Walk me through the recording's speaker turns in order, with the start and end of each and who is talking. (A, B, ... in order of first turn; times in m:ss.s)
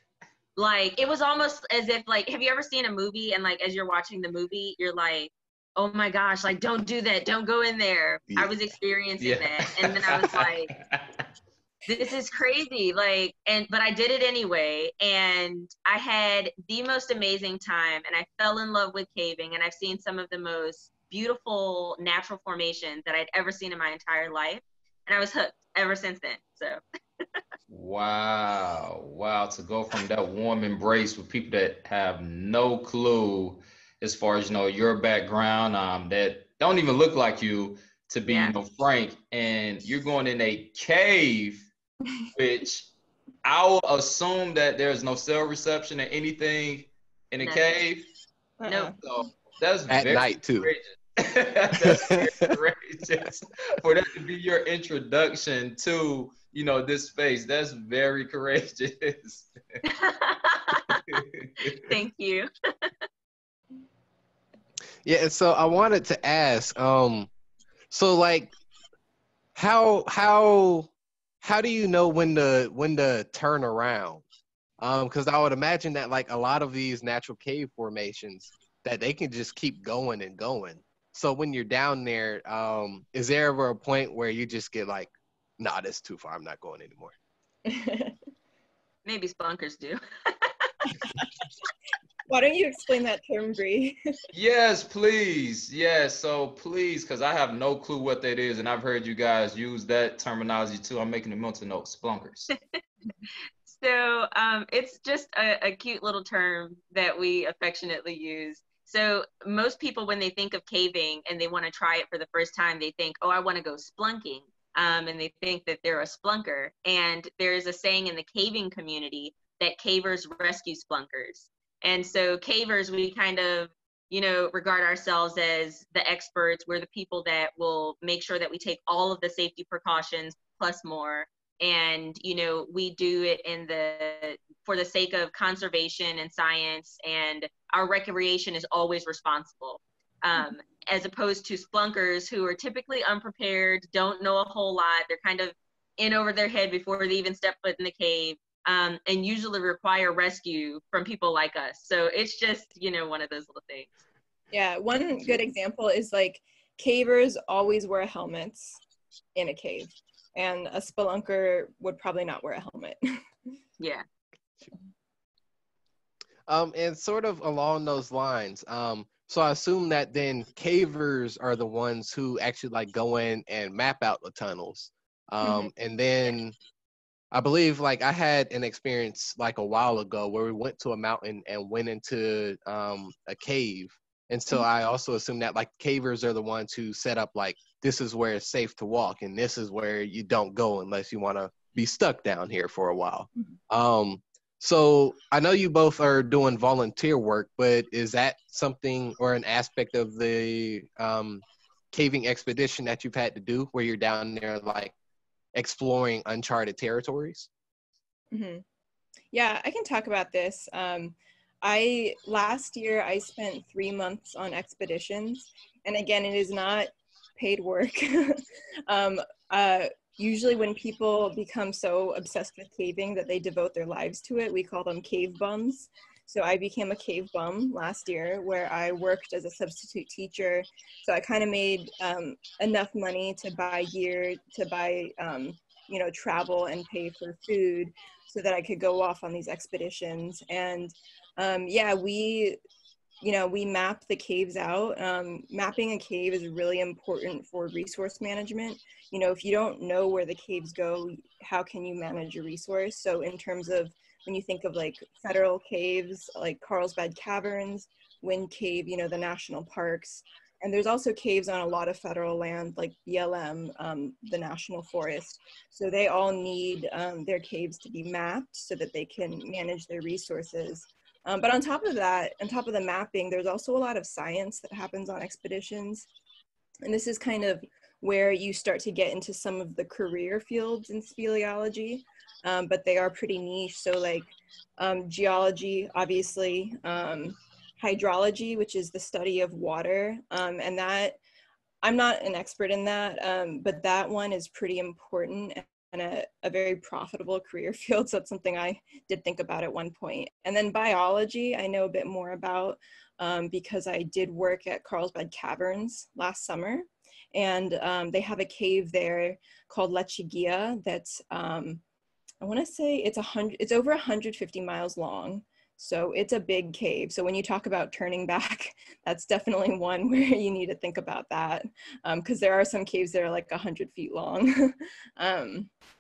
0:00.6-0:10.7 A
0:09.2-0:11.2 B
0:11.9-0:26.8 A
0:27.7-0:41.7 B
0:38.3-0:38.6 A
0:42.4-0:42.9 B
0:43.4-0:48.1 B
0:47.4-0:47.8 A
0:48.6-0:49.0 C
0:48.7-0:59.5 B
0:49.9-0:50.7 D
0:51.8-0:52.3 D
0:59.9-1:01.2 A
1:01.1-1:01.7 B
1:01.7-1:02.9 A
1:05.0-1:07.3 D
1:07.9-1:08.5 D
1:09.6-1:10.9 D
1:11.4-1:14.2 D
1:14.8-1:27.1 D
1:27.7-1:28.2 C
1:29.1-1:30.7 A
1:32.3-1:34.0 C
1:34.3-1:42.5 B
1:43.7-2:34.0 A
2:34.5-2:38.8 C
2:39.4-2:43.2 C
2:46.5-2:56.6 D
2:55.4-2:55.7 C
2:57.3-3:24.9 D
3:25.5-3:27.5 D
3:28.3-3:28.6 C
3:29.3-4:02.6 C
4:03.2-4:36.1 C
4:36.8-4:51.2 C
4:51.8-5:11.8 C
5:12.4-5:25.7 C